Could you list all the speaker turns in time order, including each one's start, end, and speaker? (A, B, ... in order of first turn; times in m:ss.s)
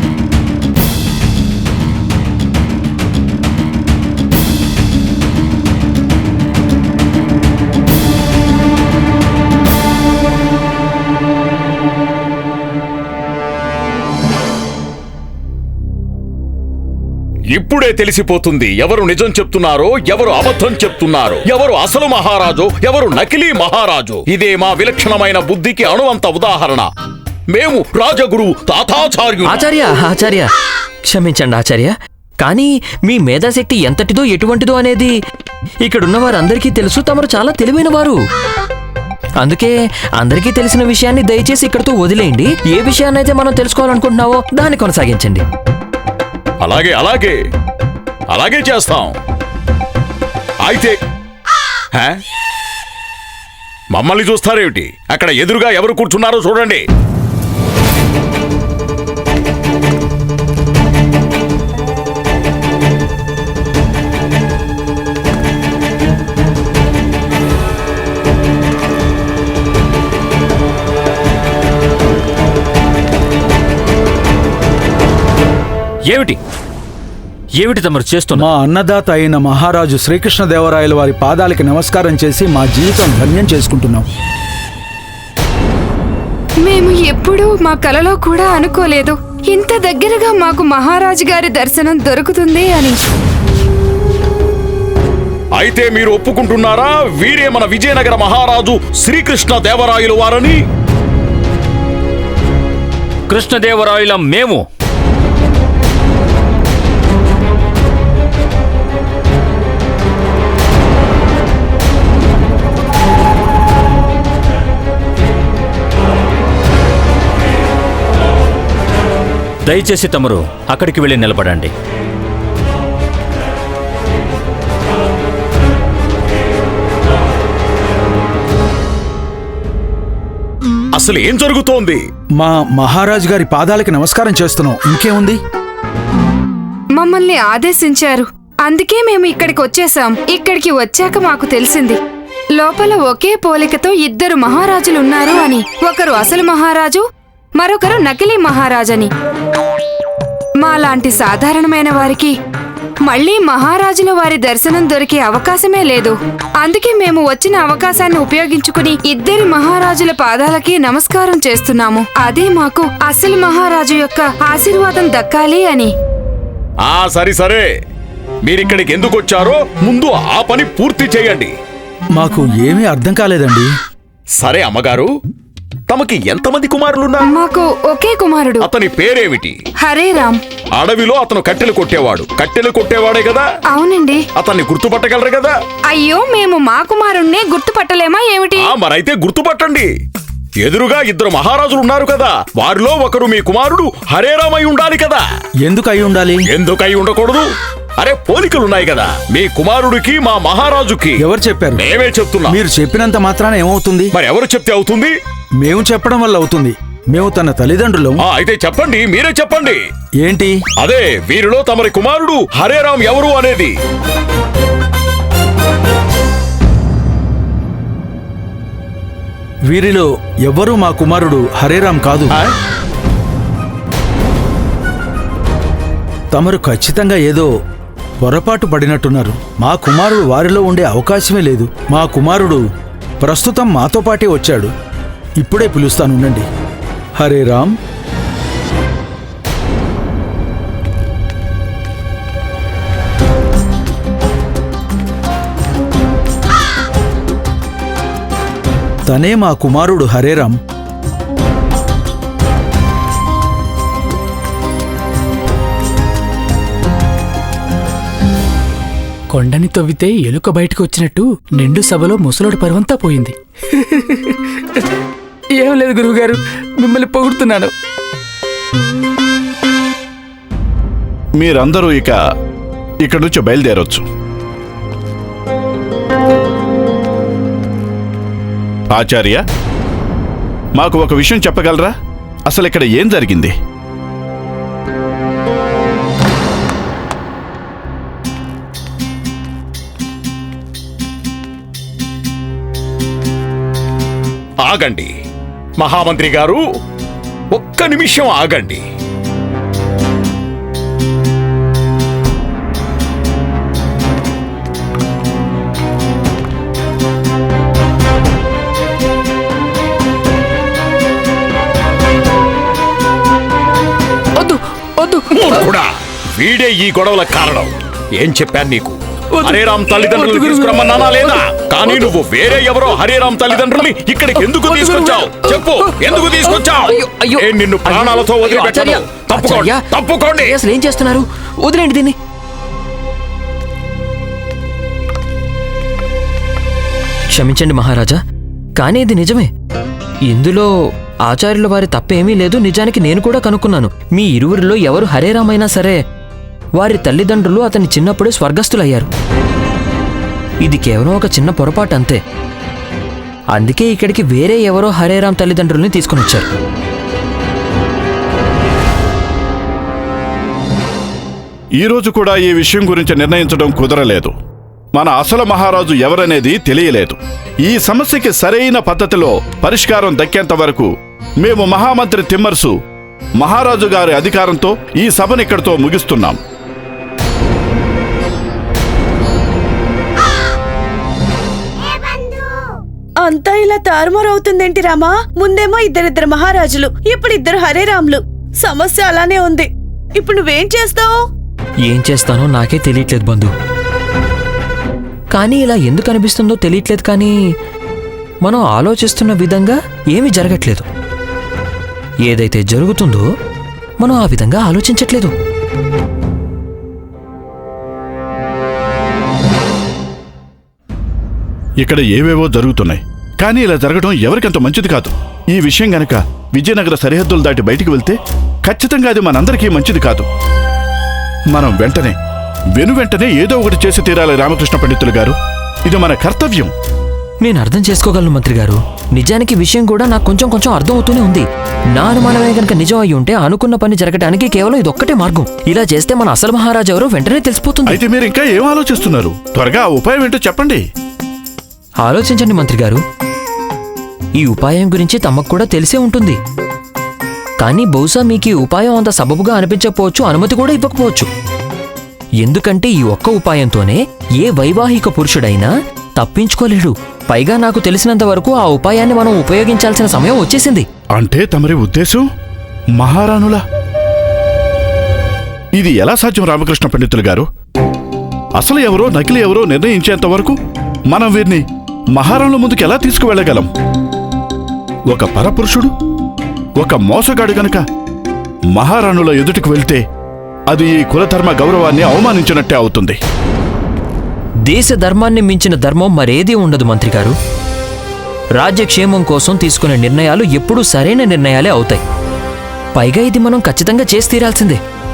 0:17.5-0:26.9 A
0:27.5-0:29.7 A
0:29.4-0:30.4 B
0:31.1-0:35.1 B
0:35.8-0:38.2 B
0:39.4-0:45.4 B
0:46.6-0:47.4 A
0:48.3-0:49.2 A
0:50.6-0:50.9 A
0:53.9-0:56.8 A
1:16.1-1:16.4 C
1:17.6-1:18.5 C
1:18.4-1:24.0 D
1:26.6-1:33.0 E
1:35.6-1:40.6 A
1:43.3-1:44.6 C
1:59.6-2:01.7 C
2:10.9-2:12.0 A
2:12.4-2:15.4 D
2:17.0-2:22.0 E
2:22.6-2:27.0 E
2:27.6-2:29.1 E
2:30.6-2:32.4 E
2:33.0-2:45.9 E
2:46.9-2:47.6 A
2:48.4-2:51.5 A
2:52.2-2:53.7 D
2:54.4-2:55.1 A
2:55.9-2:57.2 A
2:57.3-2:58.7 E
2:58.6-2:59.6 A
2:59.8-3:00.4 E
3:00.8-3:03.4 A
3:03.7-3:04.3 E
3:04.4-3:05.5 A
3:05.9-3:08.7 E
3:08.6-3:09.9 A
3:10.6-3:15.2 A
3:15.6-3:16.4 D
3:16.4-3:17.5 A
3:18.0-3:22.6 A
3:21.3-3:21.8 D
3:22.5-3:24.1 D
3:24.1-3:25.1 A
3:25.6-3:28.1 D
3:28.2-3:29.8 A
3:30.2-3:30.6 D
3:30.8-3:33.7 A
3:39.7-3:42.3 D
3:46.3-3:47.5 D
3:48.2-3:52.6 D
3:53.2-3:54.7 D
3:55.4-3:56.4 D
3:57.2-3:57.7 D
4:09.1-4:10.6 D
4:19.3-4:23.4 F
4:25.6-4:27.7 F
4:31.4-4:32.1 G
4:33.0-4:34.0 G
4:38.9-4:39.4 G
4:40.8-4:41.9 G
4:42.5-4:43.5 G
4:54.6-4:55.1 A
4:55.8-4:56.6 A
4:57.5-4:58.8 A
5:14.4-5:15.4 F
5:15.3-5:30.6 A
5:19.5-5:21.2 F
5:24.6-5:26.5 F
5:27.0-5:29.8 B
5:30.4-5:32.2 B
5:37.3-5:38.2 B
5:38.8-5:39.5 B
5:40.3-5:40.7 B
5:41.3-5:46.0 B
5:46.8-5:49.1 B
5:50.6-5:52.2 B
5:53.5-5:56.5 B
6:01.8-6:04.3 G
6:05.0-6:10.9 G
6:11.4-6:12.7 G
6:13.4-6:16.4 G
6:23.2-6:31.1 H
6:31.9-6:33.5 B
6:35.3-6:37.4 B
6:38.4-6:40.9 B
6:42.3-6:43.2 B
6:44.0-6:45.3 B
6:51.8-7:00.3 G
7:01.5-7:02.1 G
7:02.8-7:05.4 G
7:05.9-7:06.7 G
7:07.4-7:18.0 B
7:17.9-7:20.8 G
7:22.0-7:23.0 B
7:24.4-7:26.4 B
7:27.6-7:31.3 B
7:32.4-7:40.9 B
7:41.2-7:42.2 G
7:43.0-7:43.6 G
7:45.8-7:47.5 G
7:48.6-7:50.6 G
7:51.1-7:51.6 G
7:52.2-7:53.7 G
7:55.1-7:55.9 G
7:56.8-7:57.8 G
7:58.8-8:00.0 G
8:00.7-8:03.2 G
8:04.7-8:07.3 B
8:08.6-8:12.0 B
8:13.0-8:14.8 B